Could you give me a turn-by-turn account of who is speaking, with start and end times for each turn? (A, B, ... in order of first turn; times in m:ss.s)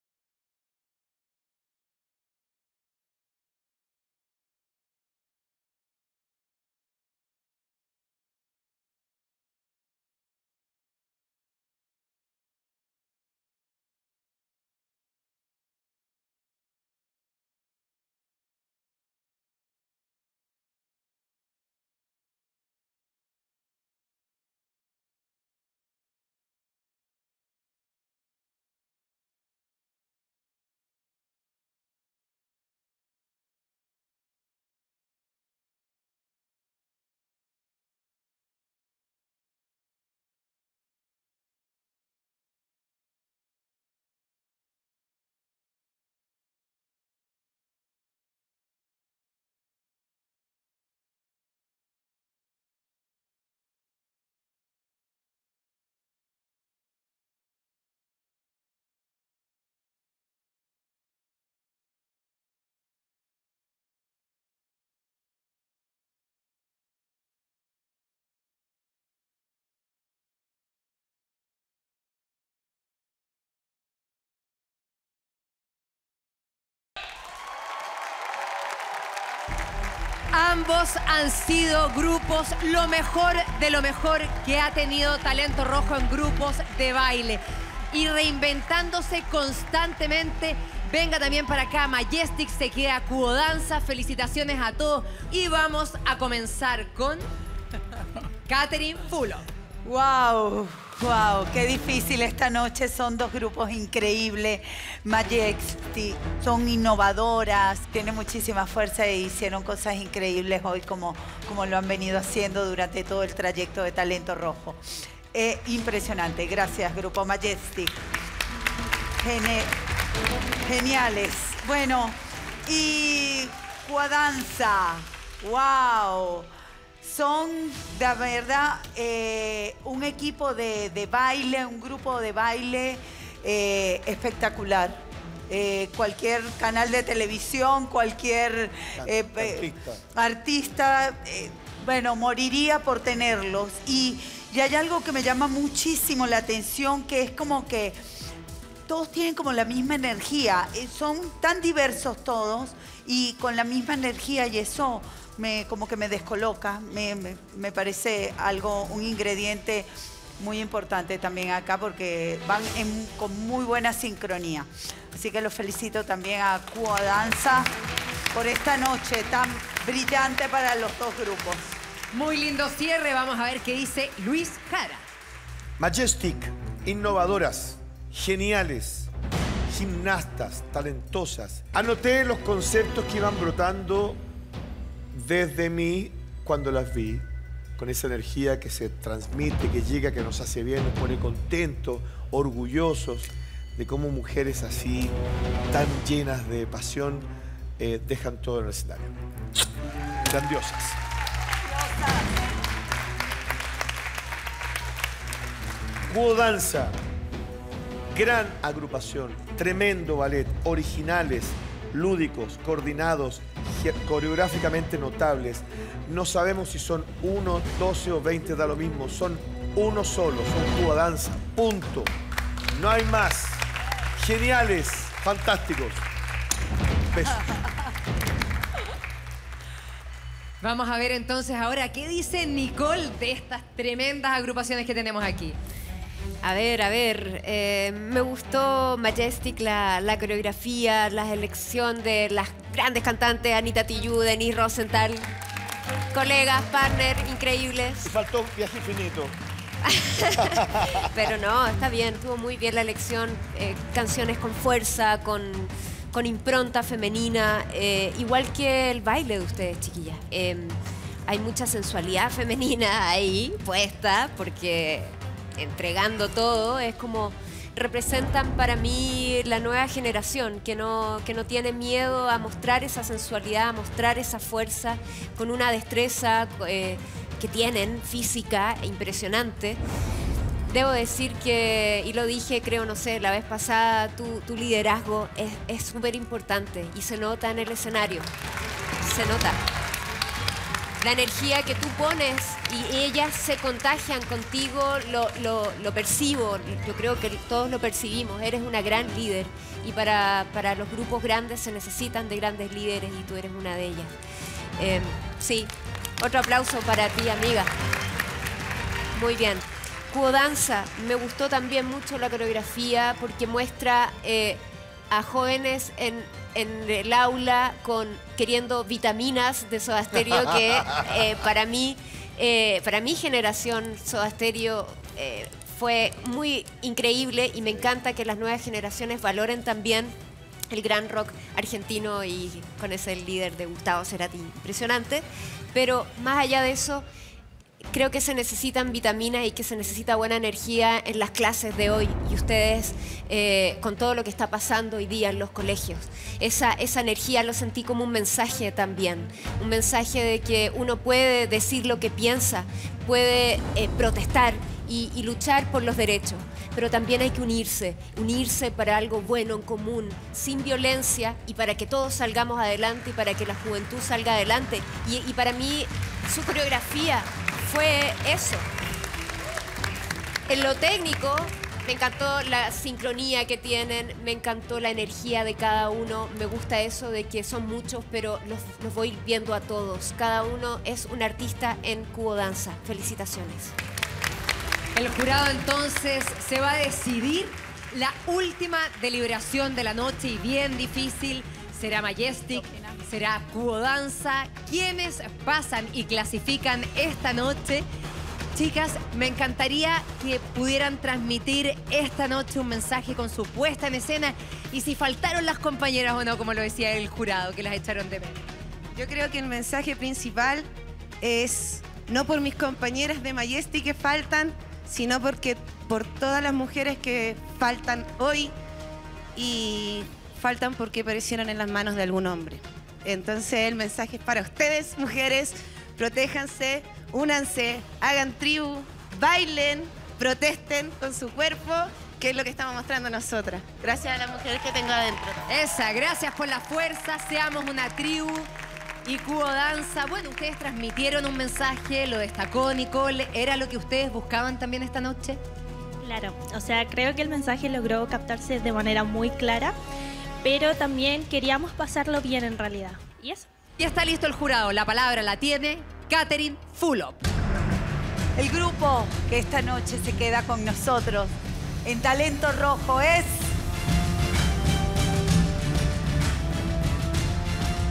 1:20.3-1:37.2 A
1:38.5-1:39.4 A
1:39.8-1:54.8 B
1:55.3-1:58.0 B
1:59.2-1:59.7 B
2:00.6-2:06.5 B
2:07.0-2:28.0 B
2:19.0-2:20.0 C
2:28.9-2:47.7 B
2:48.3-2:51.7 B
2:52.1-2:55.1 A
2:55.8-2:59.1 C
2:59.7-3:04.2 C
3:05.1-3:07.3 C
3:07.8-3:15.2 C
3:15.7-3:19.1 C
3:20.3-3:21.0 C
3:26.1-3:27.0 C
3:28.1-3:42.1 C
3:42.7-3:43.6 C
3:44.2-3:46.0 C
3:47.1-3:47.5 C
3:50.6-3:55.6 A
3:56.4-4:05.3 D
4:06.1-4:08.1 D
4:08.0-4:09.4 C
4:09.9-4:39.8 D
4:10.4-4:11.1 C
4:40.7-4:48.3 D
4:49.0-4:49.6 D
4:51.0-5:04.1 D
5:04.8-5:07.7 D
5:09.1-5:30.1 D
5:30.7-5:37.0 D
5:37.9-6:08.7 D
6:10.5-6:23.8 D
6:25.0-6:37.8 A
6:32.5-6:33.0 B
6:38.5-6:48.4 A
6:49.0-6:50.7 E
6:51.2-6:58.5 E
6:59.4-7:15.3 E
7:15.5-7:18.5 A
7:19.0-7:25.4 A
7:26.0-7:29.8 F
7:30.4-7:33.5 F
7:33.8-7:37.2 A
7:38.4-7:43.5 B